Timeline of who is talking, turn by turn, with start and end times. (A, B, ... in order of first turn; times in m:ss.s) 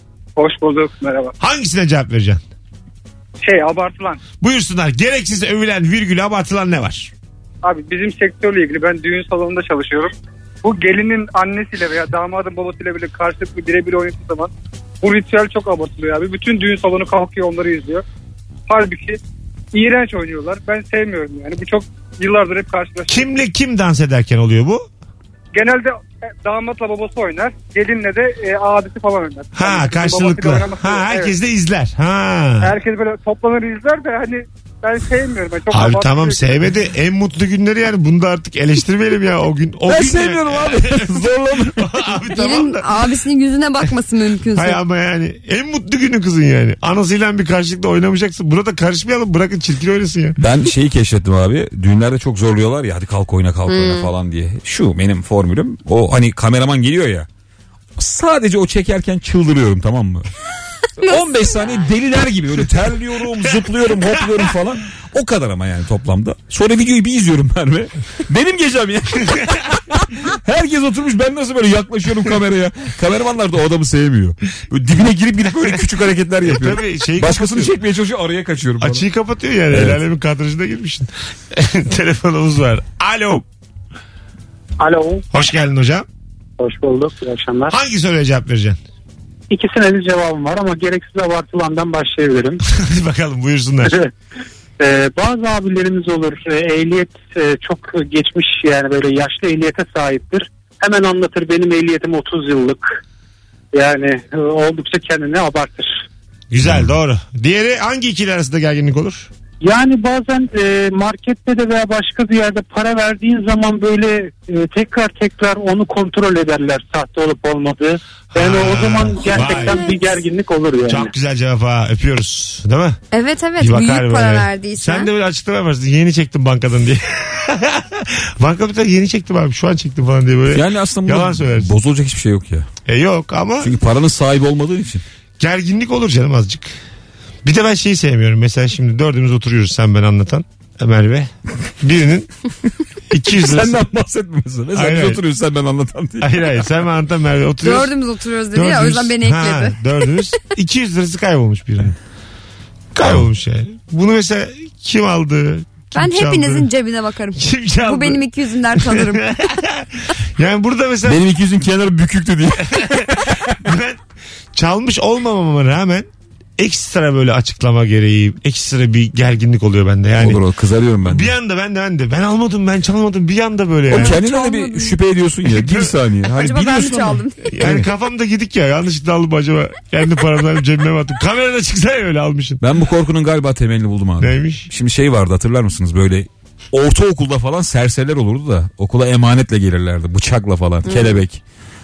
0:00.4-0:01.3 A
0:01.4-0:02.4 B
0:03.4-0:04.2 A
0:04.4-0:07.1 B
0:07.6-0:18.0 A
0:18.7-0:19.2 A
0:19.7-0:23.3 A
0:23.1-0:24.8 B
0:25.5-0:31.3 A
0:29.5-0:32.7 B
0:32.6-0:36.6 A
0:35.7-0:42.9 B
0:39.9-0:41.9 C
0:42.4-0:44.8 D
0:44.5-0:50.4 B
0:50.4-0:57.3 C
0:53.7-0:54.1 D
0:58.0-1:00.3 C
1:01.0-1:19.0 C
1:16.4-1:17.7 B
1:18.8-1:23.4 B
1:19.7-1:20.0 C
1:24.8-1:25.2 E
1:25.3-1:26.0 B
1:26.6-1:27.7 E
1:27.7-1:28.8 B
1:29.5-1:32.6 E
1:32.7-1:34.0 B
1:33.8-1:34.1 E
1:34.8-1:43.0 E
1:43.7-1:46.0 E
1:46.5-1:49.3 B
1:49.6-2:01.1 E
1:58.3-1:59.8 B
1:59.4-2:00.2 D
2:00.8-2:03.0 B
2:03.1-2:05.1 D
2:03.6-2:11.7 B
2:10.5-2:12.7 C
2:12.9-2:13.7 B
2:13.6-2:15.0 C
2:15.4-2:16.7 B
2:17.4-2:22.3 B
2:23.1-2:23.8 B
2:23.4-2:26.6 C
2:24.7-2:25.2 B
2:26.2-2:27.9 B
2:27.6-2:29.8 D
2:28.5-2:32.0 B
2:32.9-2:36.7 B
2:35.9-2:39.2 D
2:37.3-2:38.2 B
2:38.8-2:41.2 B
2:41.0-2:43.5 C
2:42.7-2:43.0 B
2:43.6-2:44.0 B
2:44.5-2:50.4 B
2:50.2-2:51.3 C
2:51.0-2:54.2 B
2:53.9-2:57.9 C
2:53.9-2:54.9 D
2:55.5-2:55.9 B
2:56.4-2:57.3 D
2:57.5-3:02.6 B
3:02.6-3:11.4 C
3:04.2-3:04.7 B